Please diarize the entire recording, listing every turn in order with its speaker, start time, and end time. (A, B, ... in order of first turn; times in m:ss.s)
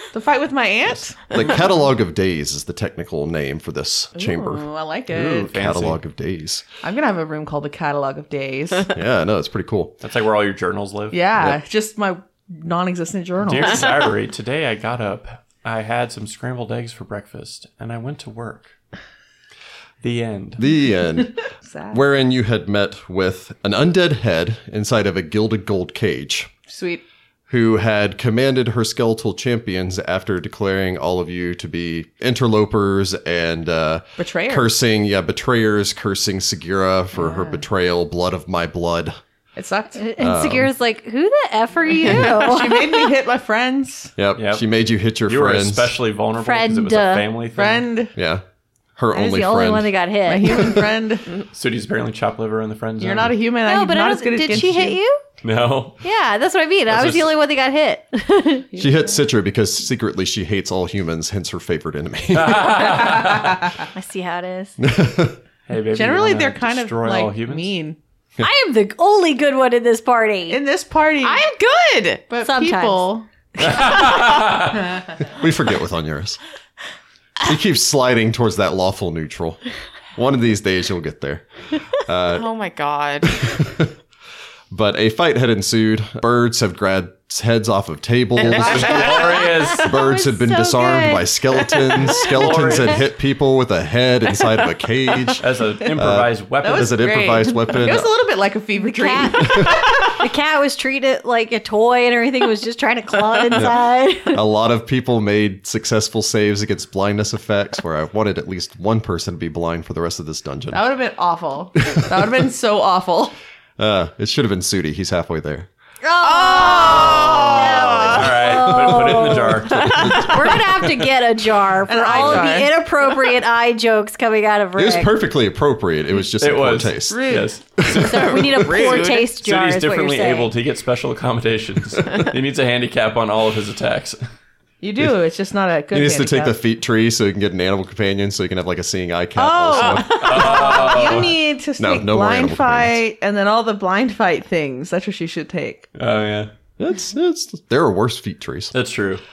0:00.1-0:01.5 A
0:00.9-0:04.6 B
0:04.2-0:05.5 A
0:05.1-0:06.0 C
0:05.5-0:06.6 B
0:06.8-0:08.9 A
0:08.9-0:10.0 B
0:10.0-0:11.2 C
0:11.1-0:14.0 A
0:13.4-0:18.7 C
0:20.0-0:20.6 C
0:20.6-0:26.5 B
0:21.6-0:22.0 A
0:26.7-0:27.0 A
0:27.5-0:39.2 B
0:34.2-0:34.7 A
0:37.1-0:37.6 A
0:39.6-0:40.0 A
0:40.0-0:43.0 D
0:40.2-0:40.7 B
0:42.0-0:42.5 E
0:42.1-0:44.1 A
0:44.2-0:45.9 B
0:44.4-0:44.6 C
0:45.2-0:47.9 C
0:46.4-0:47.3 D
0:47.5-0:48.1 A
0:48.2-0:48.4 B
0:49.0-0:50.8 B
0:49.1-0:50.8 D
0:50.3-0:51.3 A
0:51.5-0:53.3 C
0:53.0-0:55.0 A
0:53.6-0:55.2 D
0:55.4-0:56.0 C
0:56.0-0:58.7 D
0:56.9-0:57.3 C
0:58.7-0:59.1 A
0:58.8-1:03.1 B
1:02.3-1:03.4 C
1:03.9-1:04.8 D
1:04.8-1:05.4 B
1:05.7-1:07.7 C
1:05.9-1:08.0 A
1:08.4-1:10.6 D
1:10.5-1:11.5 A
1:11.2-1:12.3 E
1:12.3-1:13.8 A
1:12.4-1:13.1 D
1:13.6-1:14.8 C
1:15.2-1:16.4 B
1:17.4-1:19.6 B
1:20.2-1:22.5 B
1:22.3-1:23.4 E
1:23.2-1:23.9 B
1:24.7-1:38.1 B
1:28.4-1:29.6 A
1:28.4-1:30.0 C
1:28.5-1:28.8 E
1:29.6-1:31.3 D
1:32.1-1:33.1 C
1:35.4-1:37.0 C
1:36.6-1:40.0 A
1:38.9-1:44.4 D
1:39.4-1:39.9 B
1:44.3-1:50.8 B
1:50.7-1:53.3 A
1:53.8-1:55.7 B
1:56.0-1:57.2 A
1:56.2-1:58.3 E
1:56.3-2:05.1 D
1:57.6-1:58.1 B
1:58.0-2:01.0 C
1:59.7-2:00.4 E
2:00.0-2:00.3 B
2:01.9-2:02.7 A
2:02.1-2:02.6 C
2:04.8-2:08.4 B
2:06.4-2:14.2 C
2:07.1-2:07.5 A
2:07.8-2:10.5 D
2:08.2-2:08.8 A
2:08.6-2:09.3 E
2:14.8-2:16.6 A
2:15.9-2:20.6 B
2:19.4-2:25.9 A
2:19.7-2:21.1 E
2:20.1-2:21.4 C
2:21.8-2:23.0 B
2:26.0-2:26.5 C
2:26.8-2:28.7 B
2:28.7-2:29.2 C